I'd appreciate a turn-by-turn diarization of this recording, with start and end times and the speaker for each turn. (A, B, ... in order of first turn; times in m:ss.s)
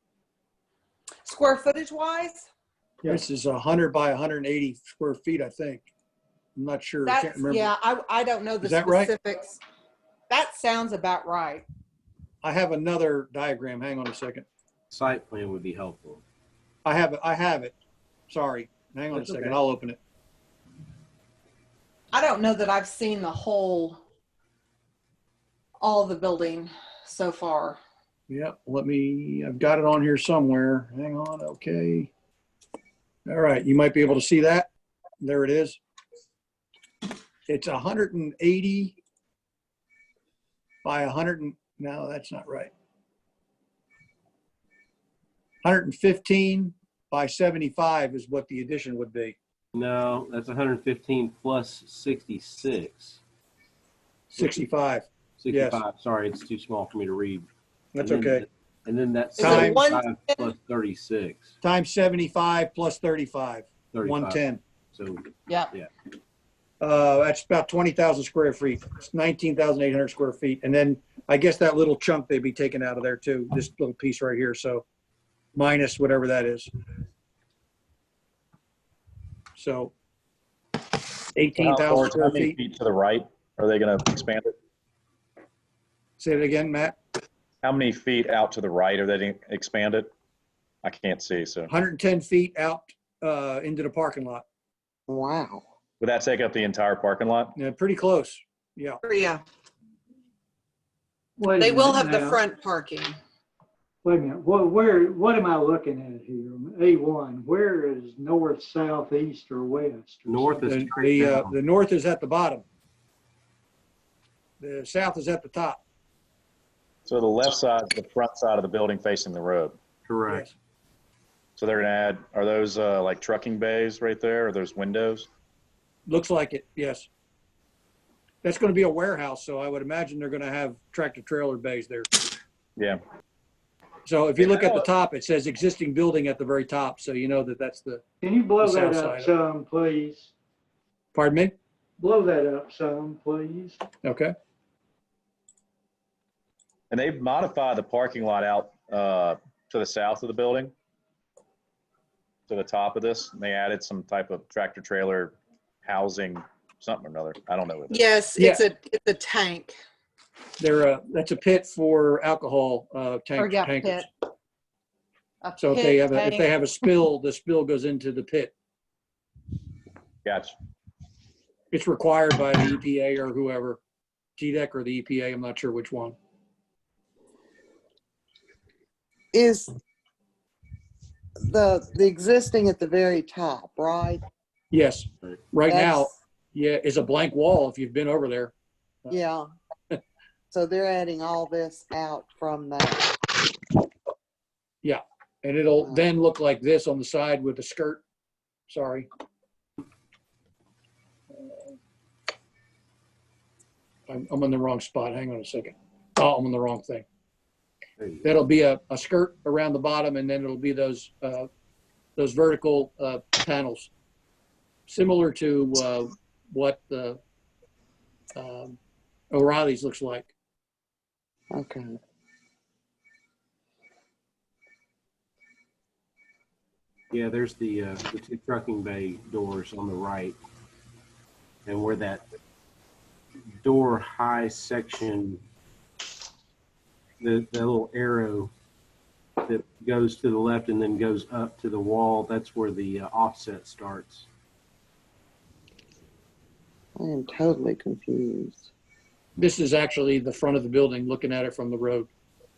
0:01.2-0:02.5 A
0:03.1-0:05.9 B
0:06.6-0:07.8 B
0:07.0-0:09.6 A
0:08.6-0:09.2 B
0:10.3-0:11.6 A
0:12.4-0:14.4 B
0:14.9-0:16.2 C
0:16.8-0:17.8 B
0:18.3-0:20.0 B
0:19.1-0:19.6 C
0:22.1-0:24.0 A
0:25.8-0:27.8 A
0:28.3-0:32.1 B
0:33.3-0:34.7 B
0:35.2-0:35.8 B
0:37.5-0:39.0 B
0:40.8-0:42.7 B
0:45.6-0:49.4 B
0:49.8-0:53.2 C
0:54.3-0:55.8 B
0:54.4-0:54.7 C
0:55.4-1:01.6 C
0:58.0-0:58.5 B
0:59.4-1:00.0 D
0:59.4-0:59.8 B
1:01.6-1:04.6 B
1:03.9-1:04.4 C
1:04.9-1:05.9 C
1:06.8-1:14.8 B
1:15.6-1:16.7 B
1:19.6-1:19.9 B
1:21.4-1:22.6 B
1:21.5-1:24.5 E
1:26.2-1:27.0 B
1:27.6-1:30.1 E
1:30.8-1:31.7 E
1:31.7-1:34.4 B
1:35.1-1:35.6 F
1:36.0-1:37.6 E
1:37.6-1:39.0 B
1:39.0-1:39.4 D
1:41.4-1:42.4 G
1:41.6-1:43.1 D
1:41.6-1:43.1 A
1:44.0-1:50.7 G
1:50.3-1:51.6 C
1:50.6-1:52.6 B
1:54.6-1:55.8 B
1:57.1-1:59.8 E
2:00.1-2:00.5 C
2:01.6-2:05.3 E
2:06.1-2:07.1 B
2:08.4-2:12.1 B
2:14.0-2:18.0 B
2:14.4-2:14.9 E
2:18.2-2:20.3 G
2:18.6-2:19.3 B
2:21.1-2:21.6 B
2:22.0-2:23.8 G
2:24.0-2:24.3 B
2:26.9-2:30.7 E
2:32.5-2:38.1 E
2:38.2-2:39.8 A
2:38.4-2:38.7 B
2:40.6-2:44.0 B
2:43.4-2:44.1 A
2:45.4-2:46.9 A
2:45.6-2:48.5 B
2:50.2-2:50.5 E
2:51.7-2:53.8 B
2:54.4-2:56.2 B
2:59.3-2:59.7 F
3:01.4-3:04.2 F
3:04.7-3:08.5 B
3:05.7-3:06.1 F
3:09.1-3:09.5 F
3:10.5-3:13.1 F
3:14.8-3:18.0 B
3:18.7-3:19.1 B
3:24.1-3:27.1 B
3:28.0-3:28.4 C
3:28.2-3:31.5 B
3:32.2-3:33.9 B
3:34.9-3:37.2 B
3:38.4-3:38.8 B
3:39.3-3:40.3 B
3:41.5-3:42.0 F
3:47.1-3:50.4 C
3:51.7-3:52.2 C
3:53.6-3:55.4 C
3:57.2-3:58.5 C
3:59.4-4:04.3 C
4:07.0-4:08.7 F
4:09.4-4:12.1 B